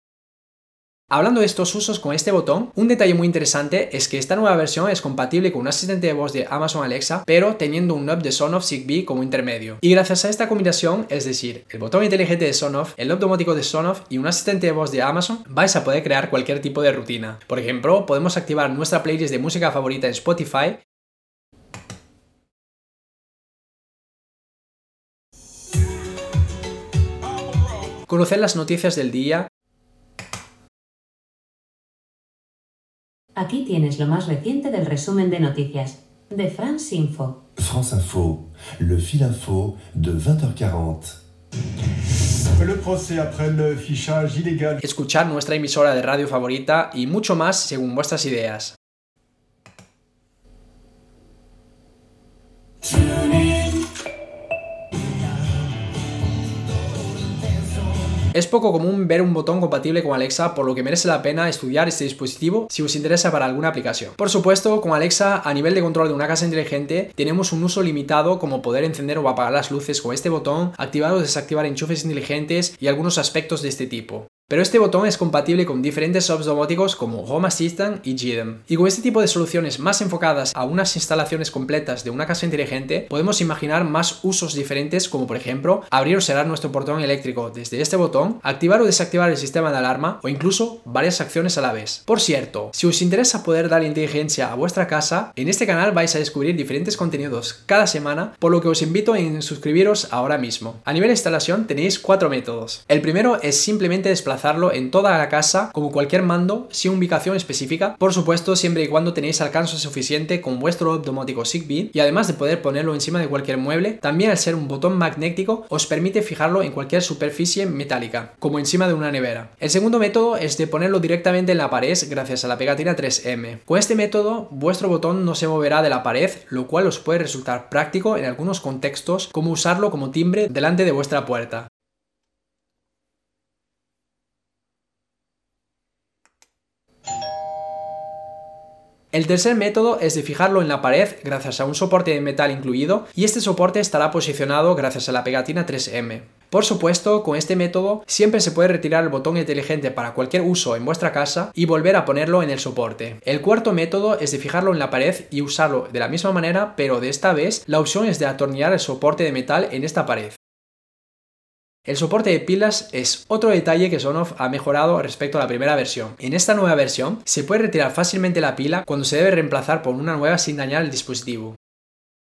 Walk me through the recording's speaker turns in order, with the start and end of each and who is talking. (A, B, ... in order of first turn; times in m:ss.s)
0:01.1-0:20.8 A
0:28.1-0:29.5 A
0:33.4-0:37.3 B
0:37.6-0:41.2 C
0:42.5-0:44.8 D
0:44.8-0:48.7 A
0:53.0-0:53.6 D
0:58.3-2:11.7 A
2:19.1-2:40.4 A
2:41.9-2:51.6 A